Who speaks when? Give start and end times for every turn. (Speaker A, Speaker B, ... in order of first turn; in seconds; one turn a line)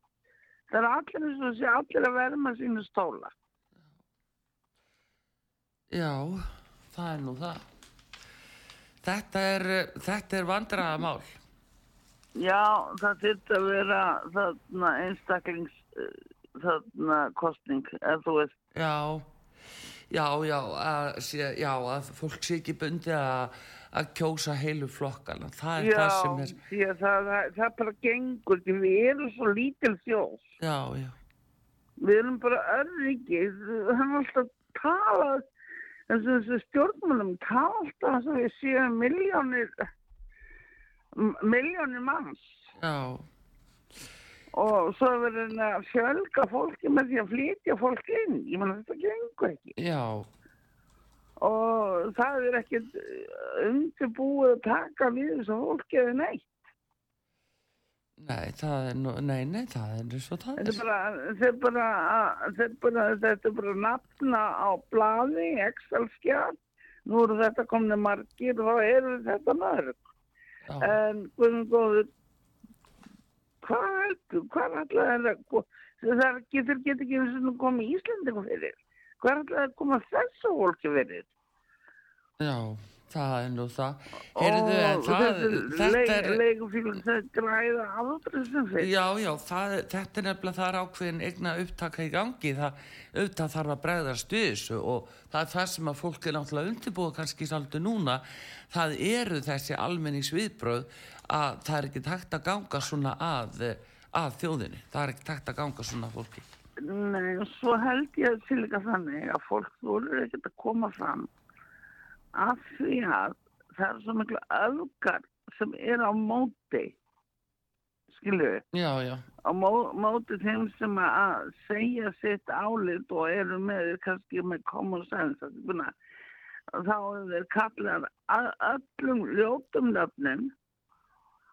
Speaker A: 0.7-3.3
Speaker B: 5.9-7.6
Speaker B: 9.0-11.4
Speaker A: 12.4-18.5
Speaker B: 18.8-19.3
Speaker B: 20.1-26.6
Speaker A: 25.8-30.4
Speaker B: 30.6-31.2
Speaker A: 32.0-35.5
Speaker A: 36.1-39.7
Speaker A: 41.1-42.6
Speaker B: 42.8-43.3
Speaker A: 44.5-49.8
Speaker B: 49.8-50.3
Speaker A: 51.4-56.5
Speaker B: 58.2-60.8
Speaker A: 60.6-70.0
Speaker B: 70.7-71.0
Speaker A: 70.8-72.1
Speaker A: 73.6-81.3
Speaker B: 82.4-86.4
Speaker A: 84.4-88.9
Speaker B: 88.8-106.5
Speaker A: 106.8-111.3
Speaker A: 112.4-117.0
Speaker A: 118.1-118.6
Speaker B: 118.7-119.3
Speaker A: 119.4-125.9
Speaker A: 126.8-130.5